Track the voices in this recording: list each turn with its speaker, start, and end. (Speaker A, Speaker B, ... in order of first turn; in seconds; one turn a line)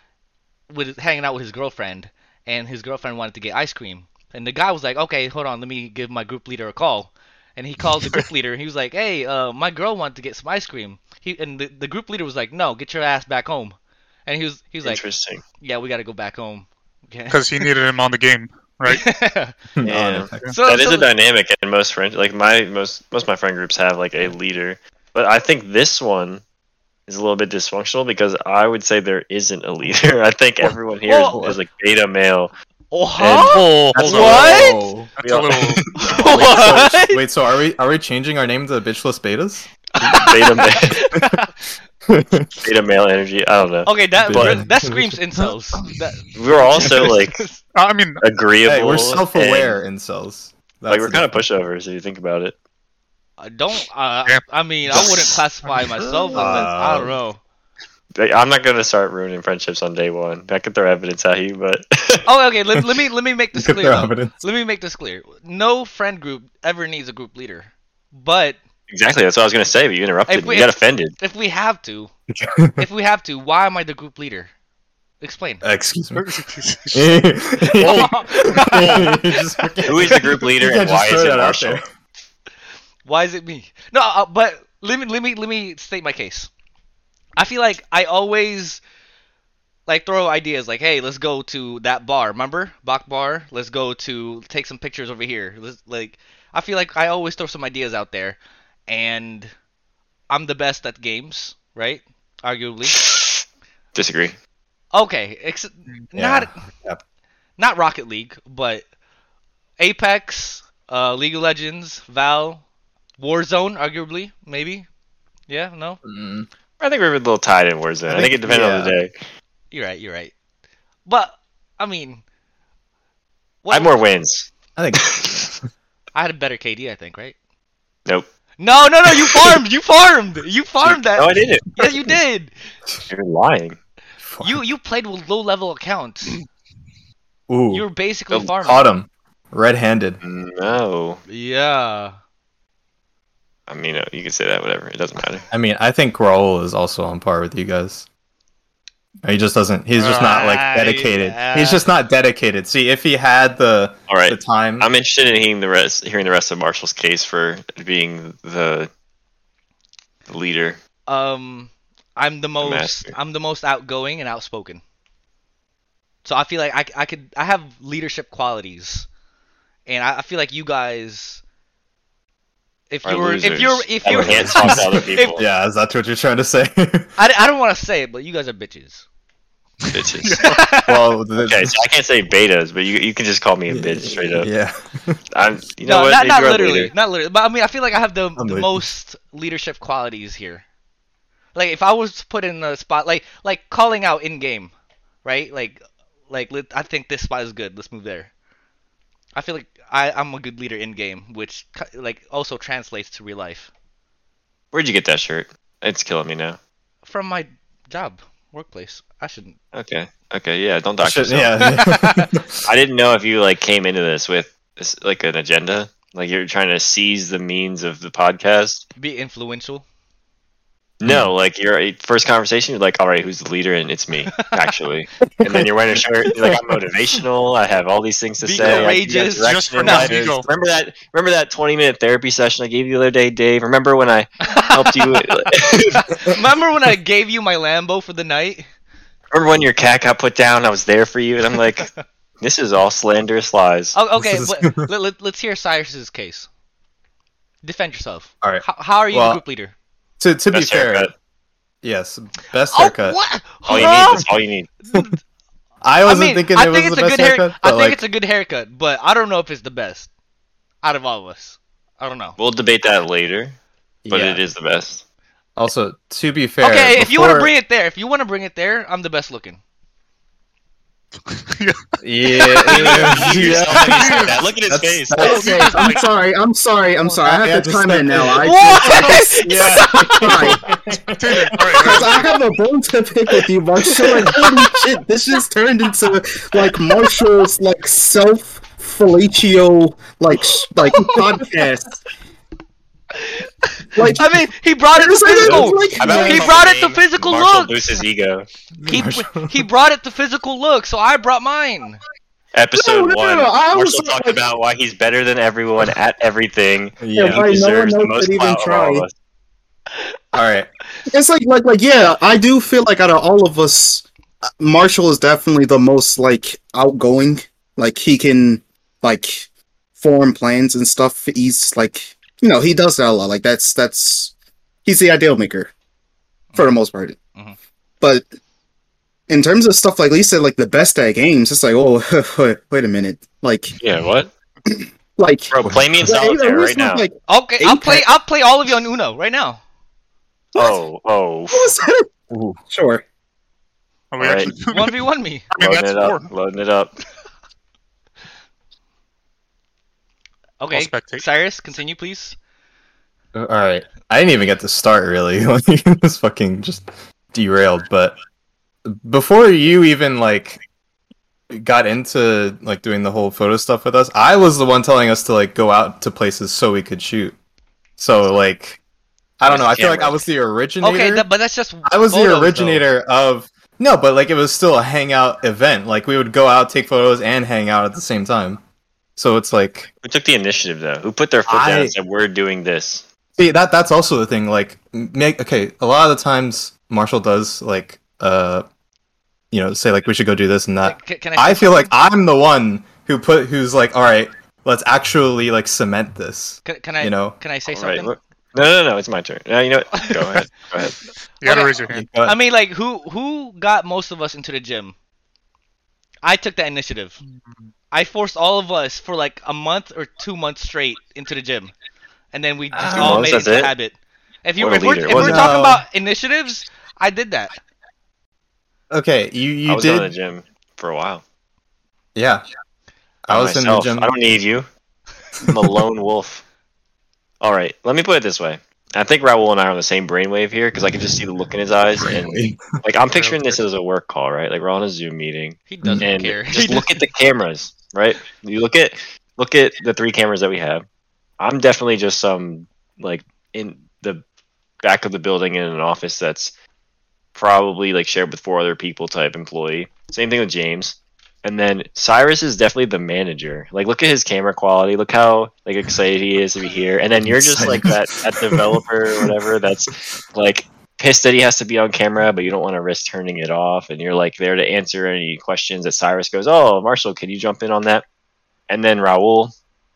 Speaker A: 0.7-15.0
Speaker B: 14.8-15.4
Speaker A: 15.6-17.6
Speaker C: 17.3-19.1
Speaker A: 18.9-19.6
Speaker D: 19.8-20.4
Speaker B: 19.9-26.4
Speaker A: 20.5-21.1
Speaker B: 27.1-32.5
Speaker A: 31.1-31.5
Speaker A: 32.9-34.8
Speaker B: 33.2-36.8
Speaker C: 33.5-35.8
Speaker D: 34.3-35.1
Speaker A: 36.0-37.2
Speaker D: 36.2-39.7
Speaker A: 40.0-41.6
Speaker B: 40.0-41.0
Speaker D: 41.1-41.4
Speaker D: 42.1-42.6
Speaker B: 42.6-44.6
Speaker A: 43.9-47.6
Speaker D: 44.2-45.5
Speaker B: 46.4-47.4
Speaker C: 47.8-48.2
Speaker B: 48.2-49.8
Speaker D: 48.6-51.4
Speaker B: 50.9-52.6
Speaker A: 53.4-57.4
Speaker B: 55.0-55.4
Speaker D: 56.4-57.1
Speaker B: 58.1-62.3
Speaker A: 62.2-68.6
Speaker D: 63.5-64.3
Speaker B: 68.9-71.2
Speaker A: 70.3-72.1
Speaker D: 72.3-72.8
Speaker A: 72.8-74.5
Speaker A: 75.2-75.6
Speaker D: 75.6-76.3
Speaker C: 76.1-77.1
Speaker D: 76.9-81.8
Speaker A: 77.6-80.2
Speaker C: 77.8-78.2
Speaker C: 78.8-79.1
Speaker B: 79.8-81.8
Speaker A: 83.1-86.5
Speaker A: 87.4-88.8
Speaker A: 89.9-99.5
Speaker A: 100.3-103.0
Speaker B: 102.9-103.4
Speaker B: 104.0-104.4
Speaker A: 104.9-106.6
Speaker D: 106.2-107.0
Speaker A: 107.6-108.9
Speaker A: 109.8-112.6
Speaker A: 113.2-114.9
Speaker A: 115.5-116.0
Speaker D: 116.0-116.5
Speaker B: 116.8-119.2
Speaker D: 118.1-119.0
Speaker A: 119.7-120.3
Speaker A: 121.1-122.2
Speaker A: 123.6-124.0
Speaker B: 123.7-125.5
Speaker D: 124.8-125.4
Speaker A: 126.2-127.3
Speaker A: 128.6-132.5
Speaker B: 130.8-132.0
Speaker B: 133.1-133.8
Speaker D: 134.2-134.6
Speaker A: 134.4-136.3
Speaker D: 137.5-137.8
Speaker A: 137.7-138.9
Speaker D: 138.5-140.2
Speaker B: 140.2-141.2
Speaker A: 141.3-142.2
Speaker B: 143.7-145.5
Speaker D: 145.5-148.1
Speaker D: 149.2-154.9
Speaker A: 149.9-151.8
Speaker B: 154.1-158.9
Speaker B: 160.3-160.8
Speaker A: 161.1-164.8
Speaker B: 162.6-163.2
Speaker A: 166.2-169.1
Speaker A: 169.9-171.4
Speaker A: 172.9-175.4
Speaker B: 173.1-175.5
Speaker D: 174.1-177.1
Speaker A: 177.2-179.0
Speaker B: 179.9-180.4
Speaker C: 180.2-180.6
Speaker A: 180.4-181.0
Speaker D: 180.9-181.7
Speaker B: 181.4-184.5
Speaker D: 183.7-185.2
Speaker B: 185.3-186.9
Speaker A: 185.9-190.6
Speaker D: 188.4-188.9
Speaker A: 191.6-194.7
Speaker A: 195.2-198.3
Speaker A: 199.3-203.7
Speaker B: 204.7-206.6
Speaker A: 207.1-209.6
Speaker B: 209.7-211.7
Speaker D: 211.0-212.6
Speaker A: 211.6-212.3
Speaker B: 212.7-218.9
Speaker A: 219.0-219.8
Speaker B: 221.0-236.0
Speaker D: 221.1-221.3
Speaker D: 225.3-225.7
Speaker A: 228.4-230.4
Speaker D: 228.6-228.9
Speaker C: 229.2-230.5
Speaker A: 234.4-238.7
Speaker B: 239.3-241.9
Speaker B: 242.4-244.0
Speaker A: 243.9-246.5
Speaker D: 244.2-244.9
Speaker A: 247.6-249.7
Speaker D: 248.4-249.4
Speaker D: 250.2-251.1
Speaker B: 250.5-251.1
Speaker D: 251.8-253.2
Speaker A: 252.7-254.3
Speaker B: 253.7-254.7
Speaker D: 253.8-254.1
Speaker D: 255.8-258.0
Speaker A: 256.1-260.1
Speaker A: 260.8-262.4
Speaker B: 262.4-265.0
Speaker D: 264.1-264.4
Speaker D: 265.6-267.5
Speaker A: 266.6-269.6
Speaker C: 271.3-271.8
Speaker D: 272.0-275.5
Speaker C: 272.4-274.4
Speaker B: 272.6-275.4
Speaker E: 275.1-281.0
Speaker C: 275.2-276.0
Speaker D: 277.0-282.2
Speaker A: 278.4-280.6
Speaker C: 281.2-282.3
Speaker E: 281.6-292.0
Speaker A: 284.0-284.8
Speaker D: 284.0-284.4
Speaker A: 286.9-287.2
Speaker A: 290.9-291.3
Speaker A: 293.2-297.9
Speaker E: 293.9-296.5
Speaker B: 295.4-298.5
Speaker D: 298.8-299.6
Speaker A: 298.9-302.0
Speaker B: 302.5-309.1
Speaker E: 302.8-304.4
Speaker D: 307.0-307.5
Speaker E: 307.1-309.1
Speaker D: 310.3-310.7
Speaker E: 311.1-314.1
Speaker E: 314.6-319.5
Speaker E: 320.0-324.3
Speaker E: 324.9-325.7
Speaker A: 326.5-326.8
Speaker E: 326.6-327.2
Speaker E: 328.0-328.3
Speaker E: 329.3-333.8
Speaker B: 333.8-334.3
Speaker E: 334.7-338.1
Speaker B: 335.5-337.1
Speaker A: 337.3-339.6
Speaker E: 340.6-340.8
Speaker B: 340.6-341.7
Speaker E: 341.5-342.1
Speaker D: 342.3-342.6
Speaker E: 342.7-343.0
Speaker C: 344.1-346.3
Speaker B: 344.2-344.5
Speaker A: 344.7-345.5
Speaker B: 345.6-347.0
Speaker A: 350.6-352.4
Speaker C: 350.7-351.2
Speaker D: 353.3-358.2
Speaker D: 358.9-360.6
Speaker D: 361.5-367.4
Speaker D: 368.0-368.8
Speaker D: 369.4-371.3
Speaker B: 369.5-370.3
Speaker A: 370.8-372.9
Speaker D: 371.9-378.6
Speaker D: 379.2-379.9
Speaker B: 380.0-383.1
Speaker D: 381.5-381.9
Speaker D: 383.4-388.6
Speaker D: 389.5-397.4
Speaker A: 390.8-391.9
Speaker A: 396.6-398.2
Speaker B: 397.7-401.0
Speaker A: 400.0-400.5
Speaker C: 401.4-402.1
Speaker A: 401.4-404.9
Speaker D: 401.9-402.4
Speaker A: 406.2-407.2
Speaker A: 407.9-411.7
Speaker A: 412.3-417.6
Speaker B: 412.8-413.8
Speaker D: 412.8-413.3
Speaker B: 414.6-415.5
Speaker D: 415.1-415.8
Speaker D: 418.9-420.1
Speaker B: 419.7-421.2
Speaker D: 422.1-422.4
Speaker D: 423.2-424.1
Speaker B: 423.3-424.7
Speaker B: 425.5-426.4
Speaker B: 427.4-440.9
Speaker D: 432.0-432.6
Speaker C: 433.1-433.6
Speaker A: 435.7-436.9
Speaker D: 435.8-436.1
Speaker B: 441.4-444.2
Speaker B: 444.8-446.5
Speaker B: 447.4-468.1
Speaker D: 457.2-459.3
Speaker B: 468.7-469.5